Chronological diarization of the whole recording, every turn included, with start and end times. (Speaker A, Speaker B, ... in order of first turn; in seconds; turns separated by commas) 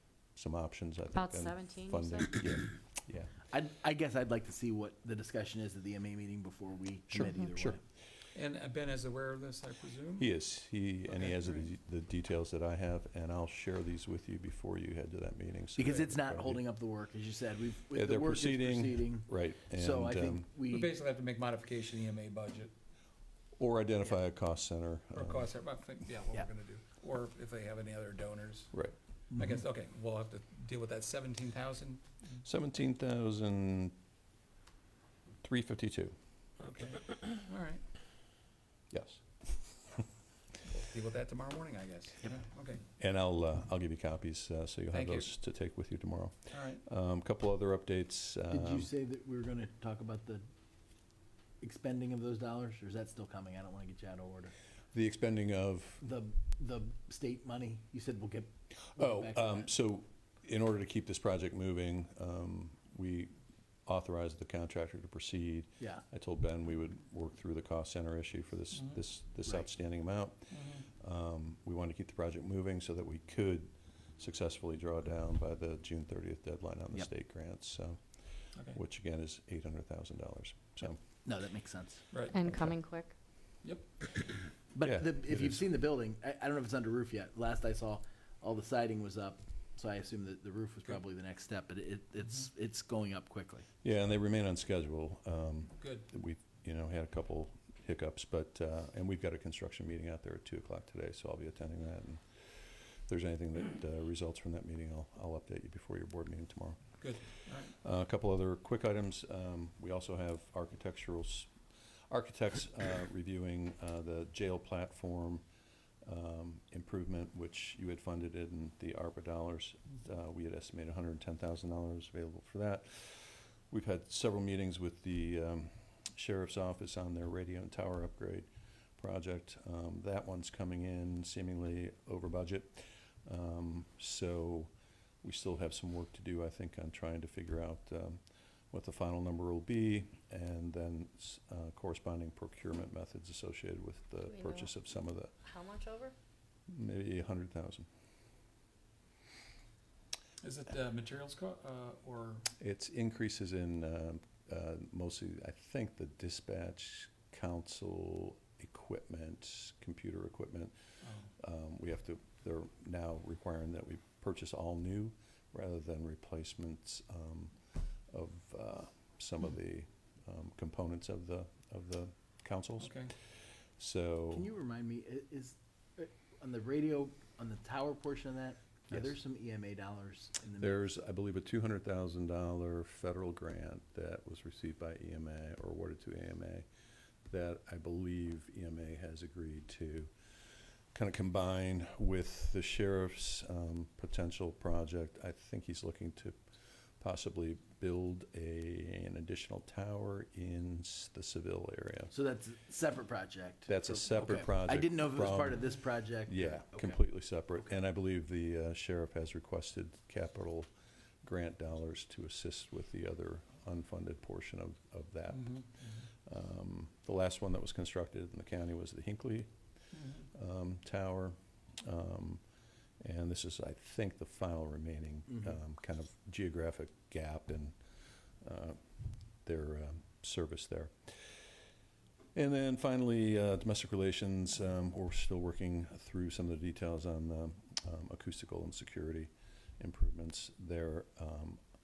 Speaker A: 0.3-3.3, Speaker B: 1.1-2.4, Speaker C: 3.5-7.8, Speaker A: 7.1-7.8, Speaker D: 8.3-10.3, Speaker A: 10.2-16.6, Speaker D: 11.1-11.7, Speaker C: 15.8-20.9, Speaker A: 17.9-20.5, Speaker D: 20.7-22.7, Speaker A: 23.6-25.5, Speaker D: 25.1-28.7, Speaker D: 29.4-32.0, Speaker A: 32.4-34.0, Speaker A: 35.4-36.2, Speaker D: 36.6-37.8, Speaker A: 38.9-40.0, Speaker D: 40.6-42.8, Speaker A: 43.0-48.9, Speaker D: 44.9-45.3, Speaker D: 46.5-46.8, Speaker C: 48.5-50.5, Speaker C: 51.6-54.5, Speaker A: 54.9-56.0, Speaker C: 56.0-59.7, Speaker A: 58.7-63.3, Speaker A: 63.9-78.0, Speaker D: 70.5-70.9, Speaker A: 78.7-81.0, Speaker C: 81.2-82.0, Speaker D: 82.1-82.4, Speaker B: 82.3-83.1, Speaker A: 82.5-82.7, Speaker C: 84.7-93.7, Speaker A: 84.8-85.5, Speaker A: 93.8-111.5, Speaker D: 95.8-96.1, Speaker D: 107.0-107.7, Speaker A: 112.1-115.4, Speaker A: 116.0-134.7, Speaker A: 135.2-145.3, Speaker B: 144.2-144.7, Speaker B: 145.4-146.1, Speaker A: 146.7-147.9, Speaker D: 150.4-152.5, Speaker A: 152.6-160.7, Speaker D: 161.0-161.3, Speaker A: 161.4-167.5, Speaker A: 168.1-173.2, Speaker D: 172.8-173.1, Speaker A: 173.8-174.5, Speaker C: 174.3-180.9, Speaker A: 180.6-186.7, Speaker A: 187.3-190.1, Speaker A: 190.9-196.4, Speaker A: 197.0-202.1, Speaker C: 202.1-207.0, Speaker A: 203.7-210.7, Speaker A: 211.2-219.5, Speaker D: 215.3-216.0, Speaker D: 219.9-220.2, Speaker A: 220.3-222.4, Speaker A: 223.0-227.8, Speaker A: 228.4-228.8, Speaker A: 229.4-231.4, Speaker A: 232.3-241.6